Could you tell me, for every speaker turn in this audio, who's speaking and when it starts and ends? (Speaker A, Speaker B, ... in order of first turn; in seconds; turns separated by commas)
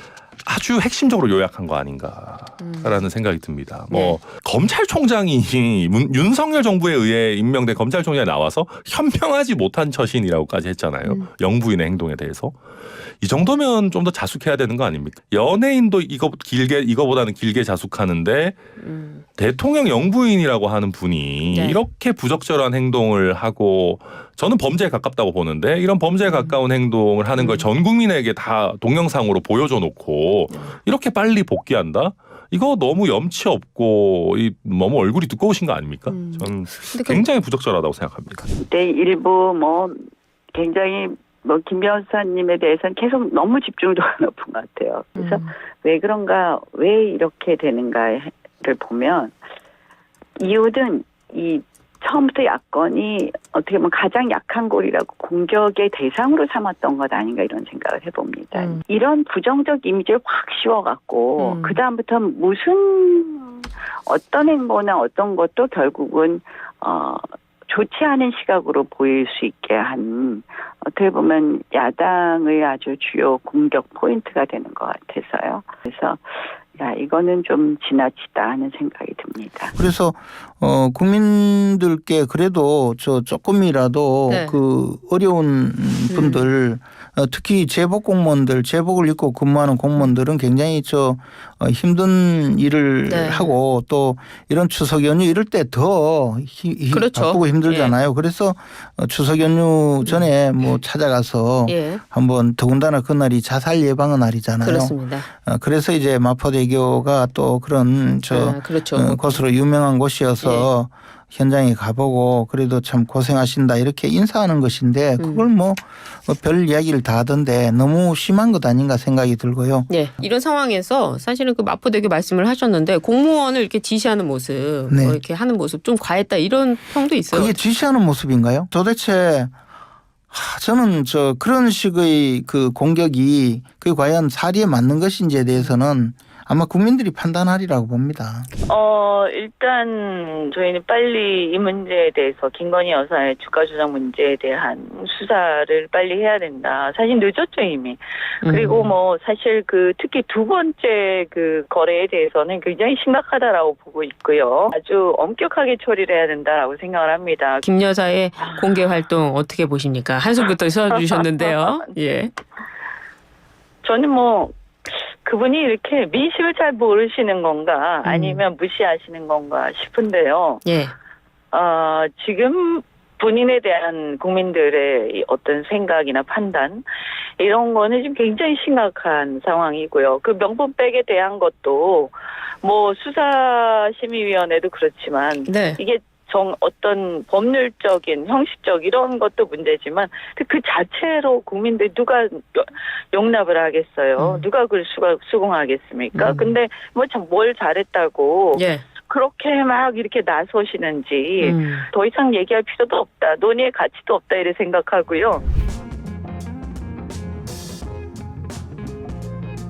Speaker A: 0.4-12.6, Speaker B: 2.6-3.0, Speaker B: 3.9-4.2, Speaker A: 13.2-18.6, Speaker B: 18.8-19.2, Speaker A: 19.4-38.5, Speaker B: 21.4-21.8, Speaker B: 26.2-26.6, Speaker B: 27.4-27.7, Speaker B: 30.5-30.8, Speaker B: 36.1-37.3, Speaker C: 38.6-40.0, Speaker C: 40.5-49.4, Speaker B: 45.2-45.5, Speaker C: 50.4-79.7, Speaker B: 58.5-58.8, Speaker B: 61.4-61.8, Speaker D: 79.8-119.9, Speaker B: 84.3-84.6, Speaker B: 86.1-86.5, Speaker B: 93.1-93.5, Speaker B: 96.9-98.0, Speaker B: 100.0-100.3, Speaker B: 101.7-102.0, Speaker B: 104.6-105.3, Speaker B: 108.3-109.4, Speaker B: 110.4-110.7, Speaker B: 115.2-115.5, Speaker B: 119.9-127.6, Speaker D: 124.9-125.2, Speaker D: 127.3-129.5, Speaker D: 130.3-138.5, Speaker E: 138.7-157.7, Speaker B: 148.4-148.9, Speaker B: 157.6-162.3, Speaker E: 158.4-159.0, Speaker E: 160.9-161.9, Speaker E: 163.8-170.6, Speaker B: 168.0-168.4, Speaker B: 170.7-170.9, Speaker E: 171.5-176.8, Speaker E: 177.4-205.4, Speaker B: 185.5-185.8, Speaker B: 194.2-194.5, Speaker B: 196.1-196.6, Speaker B: 198.5-198.9, Speaker B: 201.4-201.9